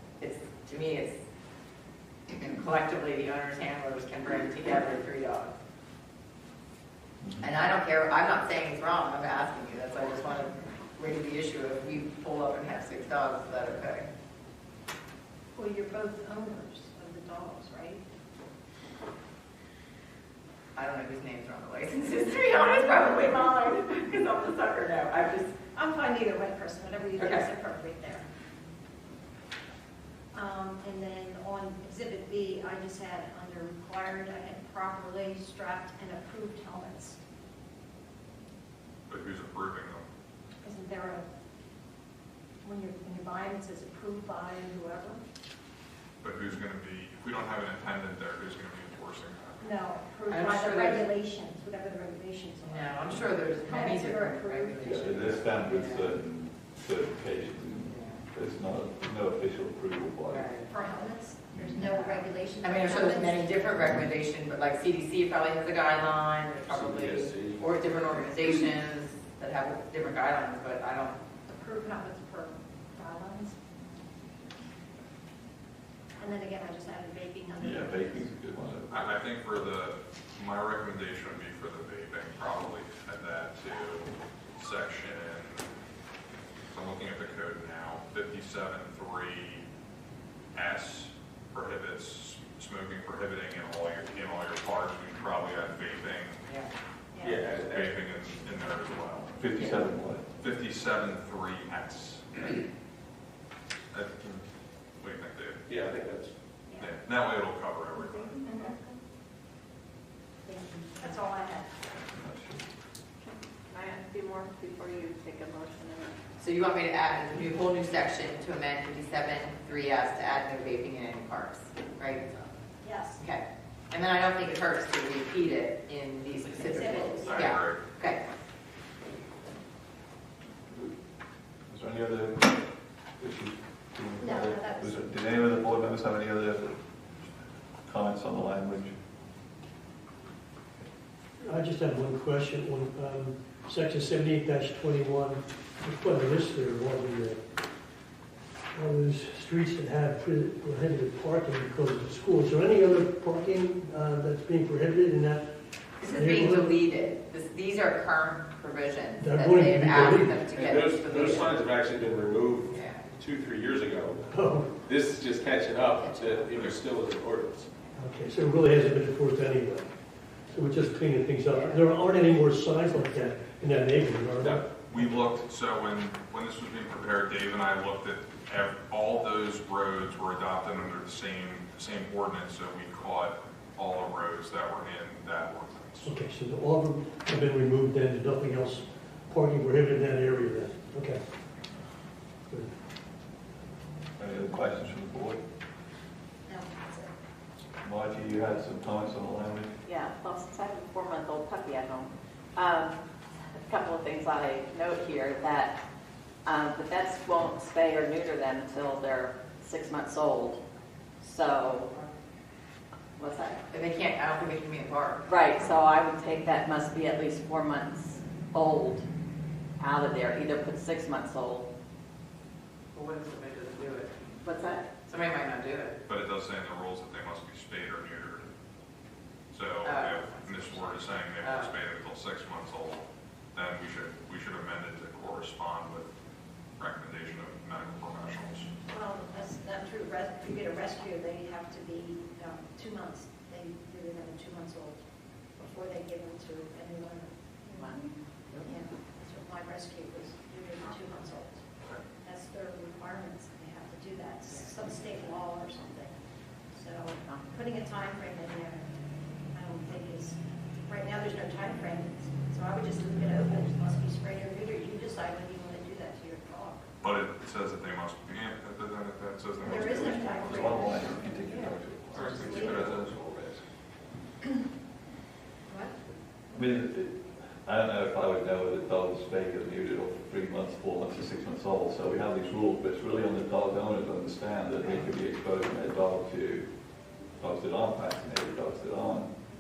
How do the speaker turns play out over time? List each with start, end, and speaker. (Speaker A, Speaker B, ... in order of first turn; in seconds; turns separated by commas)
Speaker A: 0.2-1.2, Speaker A: 2.3-5.5, Speaker B: 7.2-7.5, Speaker A: 7.4-14.1, Speaker C: 15.6-18.0, Speaker A: 20.8-25.5, Speaker C: 25.8-28.2, Speaker A: 27.2-27.4, Speaker C: 30.3-37.2, Speaker D: 39.1-40.0, Speaker C: 40.6-41.2, Speaker C: 42.6-45.2, Speaker D: 46.2-49.6, Speaker C: 49.6-55.1, Speaker A: 50.3-51.1, Speaker A: 52.6-56.1, Speaker B: 54.8-60.5, Speaker A: 57.9-58.2, Speaker A: 60.3-60.7, Speaker C: 60.7-63.7, Speaker B: 61.5-61.8, Speaker A: 61.8-71.2, Speaker E: 66.7-67.8, Speaker C: 71.5-73.6, Speaker C: 76.2-78.2, Speaker B: 77.6-79.2, Speaker D: 78.9-85.7, Speaker D: 86.7-89.7, Speaker D: 90.5-96.4, Speaker E: 97.2-98.0, Speaker D: 97.5-99.3, Speaker B: 99.4-100.2, Speaker D: 100.3-102.6, Speaker D: 103.9-104.4, Speaker D: 105.0-105.7, Speaker E: 105.7-106.3, Speaker C: 106.7-107.0, Speaker D: 106.8-108.5, Speaker C: 110.5-111.7, Speaker B: 112.0-112.6, Speaker F: 113.2-116.1, Speaker A: 116.4-122.4, Speaker C: 122.8-123.2, Speaker A: 123.2-128.2, Speaker C: 126.5-127.5, Speaker D: 127.2-127.8, Speaker B: 131.7-132.6, Speaker B: 133.2-136.8, Speaker C: 134.2-135.0, Speaker B: 137.8-138.9, Speaker G: 141.4-147.4, Speaker G: 148.7-155.5, Speaker G: 156.0-156.7, Speaker A: 156.0-161.6, Speaker G: 159.2-160.5, Speaker E: 160.5-164.2, Speaker A: 162.7-163.0, Speaker G: 164.2-164.8, Speaker E: 164.8-167.7, Speaker G: 167.9-169.9, Speaker G: 170.5-175.2, Speaker E: 174.4-174.7, Speaker D: 174.8-186.1, Speaker G: 186.0-191.2, Speaker B: 194.2-195.4, Speaker C: 196.5-197.1, Speaker B: 197.8-199.7, Speaker F: 199.8-203.0, Speaker F: 203.7-205.8, Speaker F: 206.4-210.6, Speaker F: 211.2-211.9, Speaker F: 213.2-213.6, Speaker A: 213.7-215.2, Speaker F: 215.3-219.0, Speaker F: 219.8-221.7, Speaker A: 222.9-224.3, Speaker F: 224.4-224.9, Speaker A: 225.1-226.0, Speaker D: 226.1-228.5, Speaker D: 229.5-236.1, Speaker A: 229.8-231.7, Speaker D: 236.8-238.7, Speaker C: 238.9-245.0, Speaker C: 245.6-247.9, Speaker F: 247.8-248.8, Speaker C: 248.7-251.6, Speaker C: 252.2-256.1, Speaker C: 256.7-258.9, Speaker C: 259.5-266.9, Speaker D: 267.0-270.8, Speaker C: 269.6-272.8, Speaker B: 269.7-273.4, Speaker D: 272.1-273.5, Speaker C: 275.7-275.9, Speaker B: 276.5-286.7, Speaker B: 287.4-289.3